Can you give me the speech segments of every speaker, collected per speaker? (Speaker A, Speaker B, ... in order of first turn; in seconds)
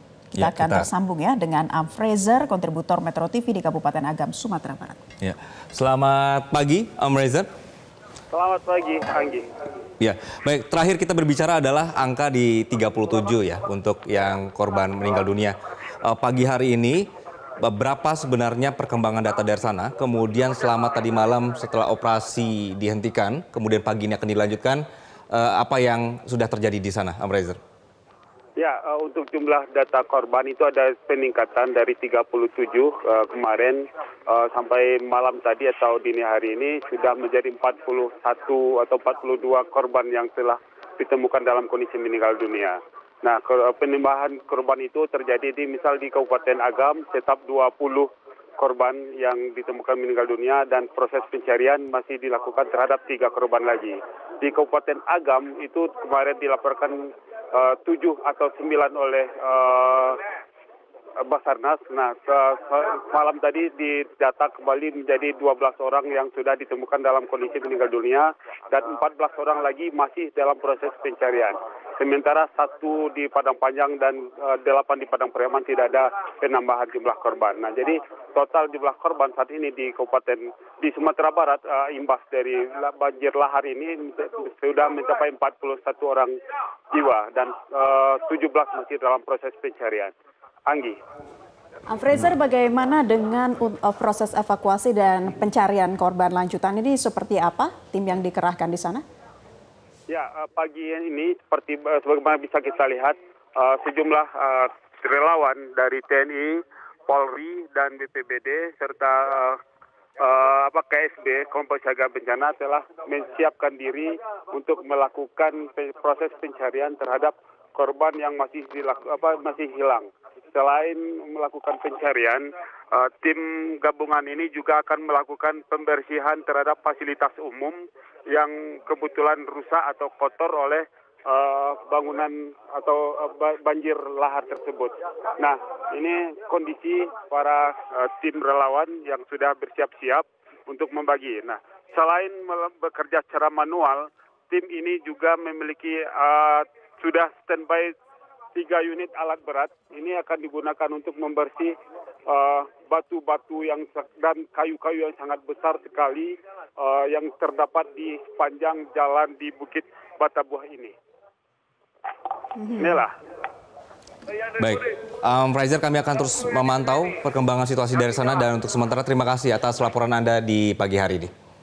Speaker A: 0.3-5.0, 91.9-99.0
Speaker B: 0.4-0.9, 5.2-7.5, 10.0-17.1, 17.6-27.6, 164.6-171.3
Speaker C: 8.3-9.5, 28.6-48.1, 48.6-60.2, 61.2-86.3, 86.9-90.1, 90.7-91.0, 100.1-109.6, 110.2-147.9, 148.6-151.8, 152.3-160.9, 162.6-163.1